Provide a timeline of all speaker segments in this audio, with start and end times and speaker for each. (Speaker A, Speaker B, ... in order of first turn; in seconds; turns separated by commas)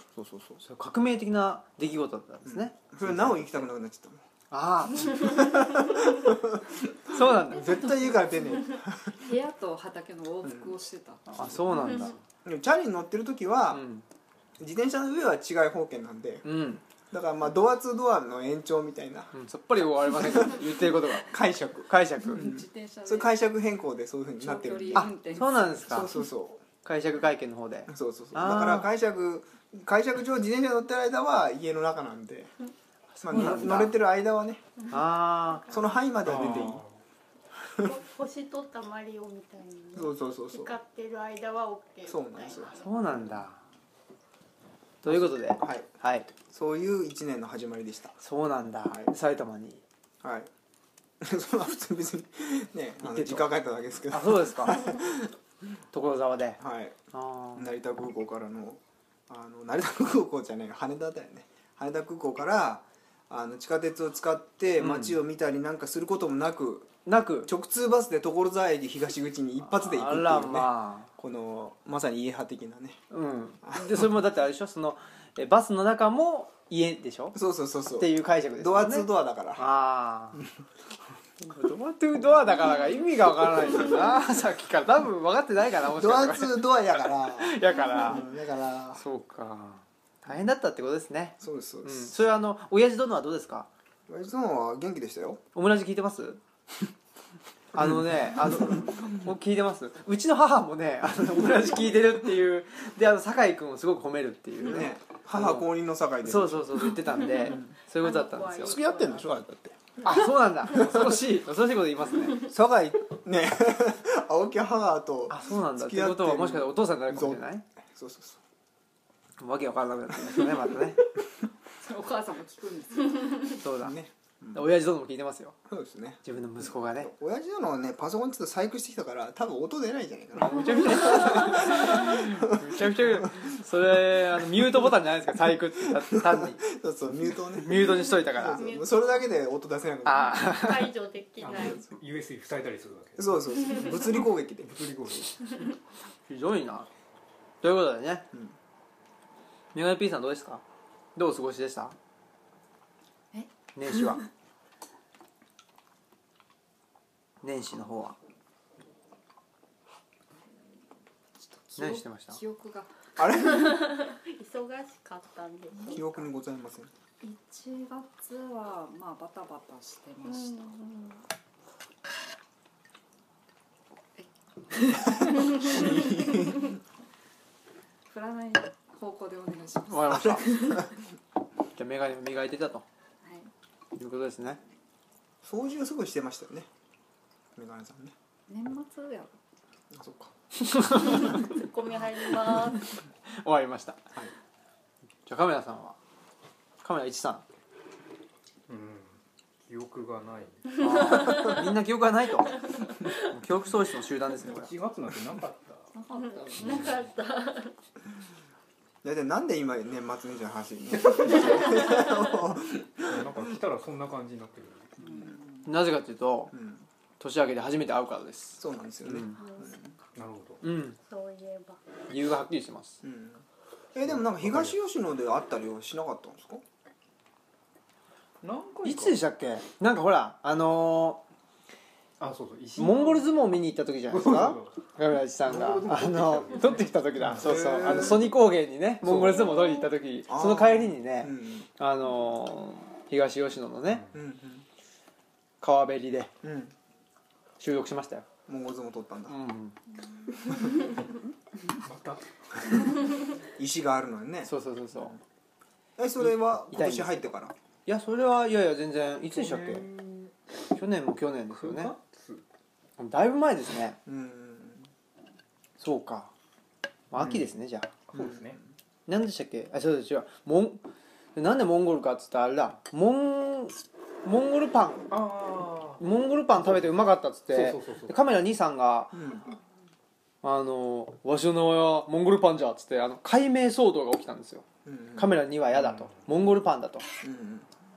Speaker A: 0.1-0.6, Speaker B: 0.6-3.5, Speaker A: 2.5-4.2, Speaker B: 4.5-5.5, Speaker A: 5.2-9.2, Speaker B: 7.1-7.9, Speaker C: 9.2-11.3, Speaker A: 10.4-10.7, Speaker B: 11.3-12.2, Speaker D: 11.7-12.1, Speaker A: 12.4-13.8, Speaker B: 13.7-14.0, Speaker A: 14.6-16.5, Speaker B: 16.4-16.8, Speaker A: 17.1-19.3, Speaker B: 19.3-22.5, Speaker A: 20.1-25.1, Speaker C: 22.3-23.4, Speaker C: 24.4-25.7, Speaker B: 24.9-26.1, Speaker A: 25.9-26.6, Speaker B: 26.8-28.9, Speaker A: 27.9-32.5, Speaker B: 33.1-34.0, Speaker A: 33.2-34.6, Speaker B: 34.9-35.7, Speaker D: 35.5-35.8, Speaker A: 35.7-36.8, Speaker E: 36.2-37.0, Speaker D: 37.8-42.9, Speaker A: 39.9-40.7, Speaker A: 42.1-42.8, Speaker B: 42.7-43.6, Speaker B: 45.0-46.3, Speaker A: 45.0-45.9, Speaker A: 46.4-48.2, Speaker B: 48.2-49.8, Speaker A: 50.2-50.5, Speaker A: 51.2-55.3, Speaker B: 54.1-54.9, Speaker B: 55.9-56.6, Speaker A: 56.6-57.0, Speaker B: 57.1-57.7, Speaker A: 57.5-66.9, Speaker B: 64.8-65.2, Speaker B: 67.0-67.5, Speaker A: 67.4-73.0, Speaker B: 69.6-71.1, Speaker B: 73.1-77.4, Speaker A: 73.6-74.0, Speaker A: 77.3-79.7, Speaker B: 78.0-80.4, Speaker B: 81.4-88.2, Speaker A: 85.9-89.0, Speaker B: 88.9-93.7, Speaker A: 91.4-92.2, Speaker A: 94.1-95.4, Speaker B: 95.5-96.4, Speaker B: 97.7-105.7, Speaker A: 97.8-99.0, Speaker A: 104.6-107.7, Speaker B: 106.2-108.8, Speaker D: 107.2-109.3, Speaker A: 108.6-111.0, Speaker B: 110.0-112.4, Speaker A: 112.5-118.4, Speaker B: 115.3-117.6, Speaker B: 119.4-121.0, Speaker C: 121.8-123.5, Speaker B: 123.6-124.0, Speaker A: 123.8-124.7, Speaker B: 124.5-125.6, Speaker A: 125.7-133.4, Speaker B: 126.2-127.1, Speaker B: 130.4-136.7, Speaker A: 136.1-140.5, Speaker B: 137.5-138.7, Speaker D: 137.7-139.3, Speaker B: 140.0-140.9, Speaker D: 140.4-141.8, Speaker E: 141.4-145.6, Speaker A: 143.2-144.8, Speaker B: 146.3-146.9, Speaker B: 147.6-148.3, Speaker B: 149.7-150.6, Speaker B: 151.1-152.0, Speaker B: 153.8-154.2, Speaker B: 157.4-158.2, Speaker C: 161.5-162.9, Speaker B: 161.8-162.4, Speaker A: 163.2-163.8, Speaker D: 163.3-166.2, Speaker C: 165.7-166.0, Speaker A: 165.9-166.9, Speaker C: 167.2-170.6, Speaker D: 170.2-171.2, Speaker C: 174.2-176.3, Speaker D: 175.6-175.9, Speaker A: 175.6-176.7, Speaker C: 178.1-180.9, Speaker B: 179.9-180.8, Speaker B: 181.8-182.8, Speaker C: 183.2-183.5, Speaker B: 184.0-184.6, Speaker A: 185.4-186.7, Speaker A: 187.6-188.1, Speaker C: 188.5-189.3, Speaker A: 189.9-190.3, Speaker B: 190.6-191.4, Speaker D: 191.2-192.9, Speaker B: 193.3-194.0, Speaker B: 195.2-196.0, Speaker B: 196.8-197.4, Speaker E: 198.7-200.9, Speaker B: 200.8-202.6, Speaker D: 200.9-201.7, Speaker D: 202.6-203.2, Speaker B: 203.2-204.7, Speaker E: 204.4-205.9, Speaker C: 205.9-207.0, Speaker D: 206.1-207.8, Speaker E: 206.6-206.9, Speaker A: 209.0-213.4, Speaker E: 211.1-211.5, Speaker E: 213.0-215.0, Speaker C: 215.0-215.6, Speaker B: 215.7-216.5, Speaker A: 216.5-216.8, Speaker B: 217.2-219.4, Speaker A: 218.6-219.9, Speaker D: 219.4-219.7, Speaker E: 220.1-220.6, Speaker B: 220.6-221.0, Speaker D: 221.0-221.8, Speaker B: 222.1-223.0, Speaker A: 223.0-226.6, Speaker E: 224.2-224.8, Speaker E: 228.4-229.2, Speaker B: 228.8-231.2, Speaker E: 232.2-233.3, Speaker B: 232.8-244.0, Speaker E: 234.1-234.8, Speaker E: 235.4-238.1, Speaker A: 237.4-238.3, Speaker E: 239.0-239.8, Speaker A: 240.3-241.7, Speaker E: 243.9-244.2, Speaker A: 244.1-244.7, Speaker B: 245.6-246.3, Speaker A: 246.4-246.7, Speaker B: 247.6-248.3, Speaker A: 248.5-249.4, Speaker B: 249.3-249.8, Speaker E: 251.8-252.9, Speaker A: 253.6-255.2, Speaker B: 254.4-255.1, Speaker A: 256.0-257.5, Speaker B: 256.2-257.3, Speaker B: 257.9-259.9, Speaker E: 259.3-260.3, Speaker B: 260.8-261.9, Speaker E: 261.5-262.4, Speaker B: 263.0-264.0, Speaker A: 264.1-264.9, Speaker B: 265.8-266.3, Speaker B: 267.1-267.9, Speaker E: 268.1-268.6, Speaker A: 268.1-268.5, Speaker B: 269.1-270.8, Speaker B: 271.4-275.2, Speaker E: 275.1-276.0, Speaker B: 276.0-279.2, Speaker E: 276.6-278.2, Speaker A: 279.1-279.5, Speaker B: 280.4-284.6, Speaker A: 284.9-285.4, Speaker B: 285.1-287.0, Speaker E: 285.7-286.2, Speaker A: 287.2-287.7